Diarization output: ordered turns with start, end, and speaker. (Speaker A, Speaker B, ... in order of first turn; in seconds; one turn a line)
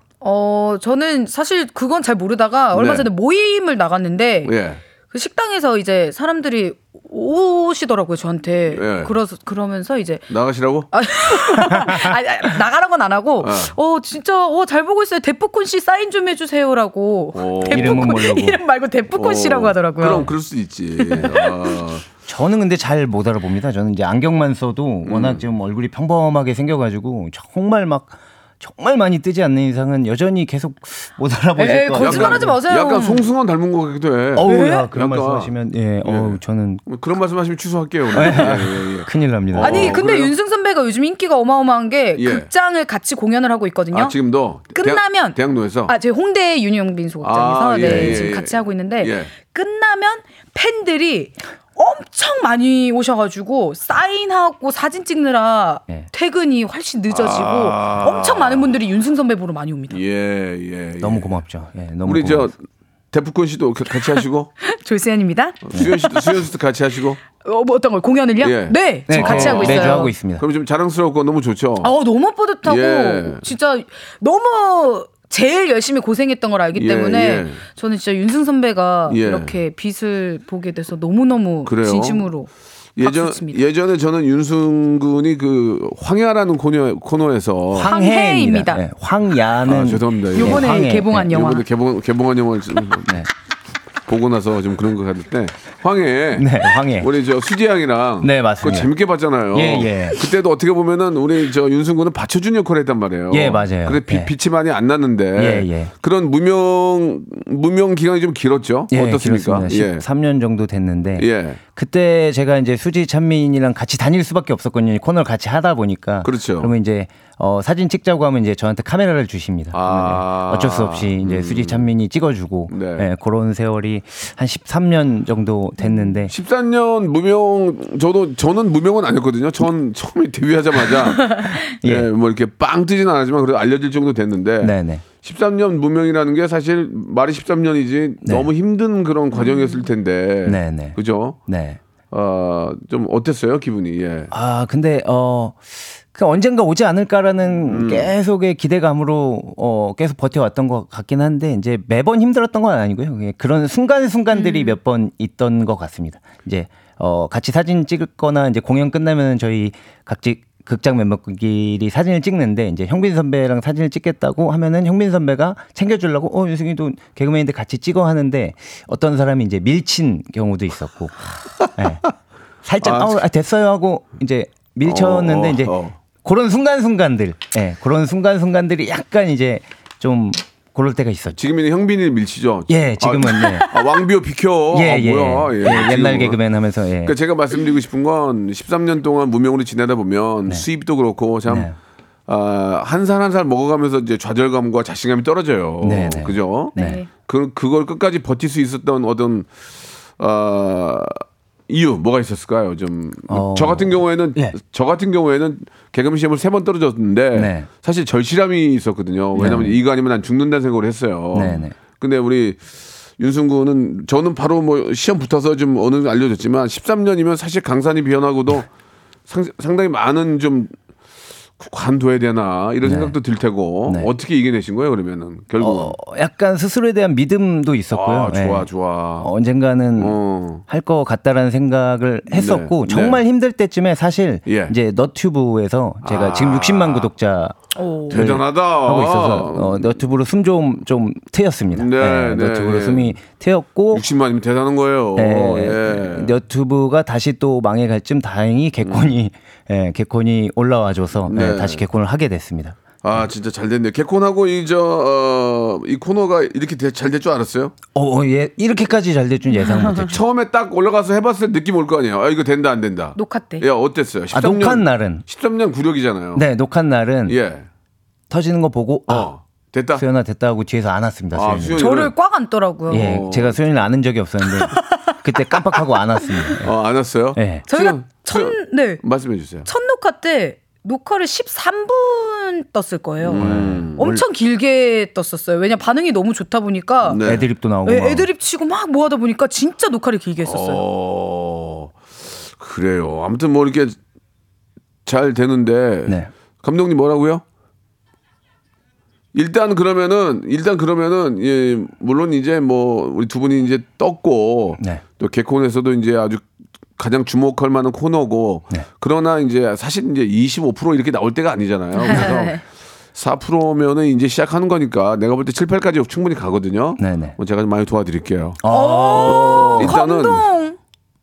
Speaker A: 0.2-4.5
Speaker B: 2.7-3.1
Speaker B: 4.5-4.8
Speaker A: 5.1-10.2
Speaker B: 8.7-9.1
Speaker B: 10.3-10.9
Speaker A: 10.9-20.3
Speaker C: 11.8-12.1
Speaker B: 13.4-13.7
Speaker B: 17.4-18.2
Speaker C: 17.7-18.6
Speaker B: 19.2-22.1
Speaker A: 21.0-21.7
Speaker C: 22.3-32.5
Speaker B: 25.1-25.4
Speaker A: 31.6-33.3
Speaker B: 32.0-40.3
Speaker C: 34.4-36.8
Speaker A: 34.5-34.9
Speaker A: 38.2-38.6
Speaker C: 38.2-40.0
Speaker A: 39.6-44.2
Speaker B: 42.2-42.5
Speaker B: 43.9-45.9
Speaker A: 44.8-60.0
Speaker B: 47.2-49.3
Speaker C: 47.8-48.3
Speaker B: 57.1-58.7
Speaker B: 59.9-61.4
Speaker C: 61.0-62.5
Speaker B: 62.0-62.5
Speaker B: 63.1-64.5
Speaker A: 63.9-66.3
Speaker B: 65.7-67.2
Speaker A: 67.4-70.1
Speaker B: 68.4-71.9
Speaker C: 69.1-70.5
Speaker A: 71.8-83.6
Speaker B: 72.6-73.5
Speaker B: 76.7-77.6
Speaker B: 79.1-79.6
Speaker B: 81.7-82.3
Speaker B: 83.0-87.9
Speaker C: 87.7-91.3
Speaker A: 87.8-88.8
Speaker B: 89.7-93.2
Speaker A: 90.3-91.6
Speaker B: 94.1-110.0
Speaker C: 96.4-97.1
Speaker C: 98.2-98.9
Speaker C: 99.5-100.2
Speaker C: 103.3-104.3
Speaker C: 105.4-105.9
Speaker C: 108.9-126.3
Speaker B: 111.2-111.6
Speaker B: 116.2-116.7
Speaker B: 119.7-121.9
Speaker B: 122.7-123.1
Speaker B: 126.3-141.4
Speaker C: 131.8-132.1
Speaker C: 134.6-135.0
Speaker C: 138.2-138.5
Speaker A: 139.4-139.7
Speaker C: 140.4-141.8
Speaker B: 142.1-144.3
Speaker C: 144.3-172.1
Speaker B: 147.7-148.1
Speaker A: 154.3-154.8
Speaker C: 172.7-181.4
Speaker B: 172.8-173.2
Speaker B: 174.8-175.9
Speaker B: 181.4-186.4
Speaker C: 182.7-183.7
Speaker A: 183.4-184.0
Speaker C: 184.7-187.2
Speaker B: 187.0-191.7
Speaker C: 191.5-191.8
Speaker B: 192.3-199.5
Speaker C: 195.8-197.0
Speaker A: 196.8-197.1
Speaker B: 200.2-218.7
Speaker C: 203.3-204.6
Speaker C: 207.3-207.7
Speaker C: 209.3-209.8
Speaker C: 211.3-211.8
Speaker B: 219.3-220.7
Speaker B: 221.6-226.0
Speaker C: 222.8-223.2
Speaker C: 225.6-228.7
Speaker B: 227.9-229.3
Speaker C: 229.2-237.6
Speaker B: 230.0-230.6
Speaker B: 232.3-233.2
Speaker B: 234.5-234.8
Speaker B: 236.0-237.1
Speaker A: 237.8-238.2
Speaker C: 238.1-244.0
Speaker B: 238.1-240.0
Speaker B: 241.7-243.2
Speaker B: 243.9-246.3
Speaker C: 245.2-252.8
Speaker B: 248.8-249.1
Speaker B: 251.2-251.8
Speaker B: 253.0-257.8
Speaker C: 257.9-260.2
Speaker B: 259.9-266.5
Speaker A: 263.2-263.7
Speaker C: 264.3-265.2
Speaker C: 266.4-267.4
Speaker B: 267.3-267.7
Speaker C: 268.3-269.3
Speaker B: 269.1-270.1
Speaker C: 269.9-271.9
Speaker B: 271.3-272.1
Speaker A: 271.8-273.1
Speaker C: 272.9-276.7
Speaker B: 272.9-273.6
Speaker A: 274.6-274.9
Speaker B: 276.6-279.7
Speaker C: 277.4-277.6
Speaker A: 277.7-279.0
Speaker A: 279.7-287.2
Speaker B: 283.2-284.1
Speaker C: 283.4-284.2
Speaker B: 287.0-287.5
Speaker C: 287.2-288.3
Speaker A: 287.9-290.8
Speaker B: 290.4-292.0
Speaker B: 292.6-294.0
Speaker B: 295.1-297.4
Speaker B: 299.3-306.5
Speaker B: 307.0-312.6
Speaker A: 312.0-312.6
Speaker B: 313.1-318.6
Speaker C: 317.0-317.4
Speaker C: 318.6-320.0
Speaker A: 318.7-320.8
Speaker B: 319.2-320.5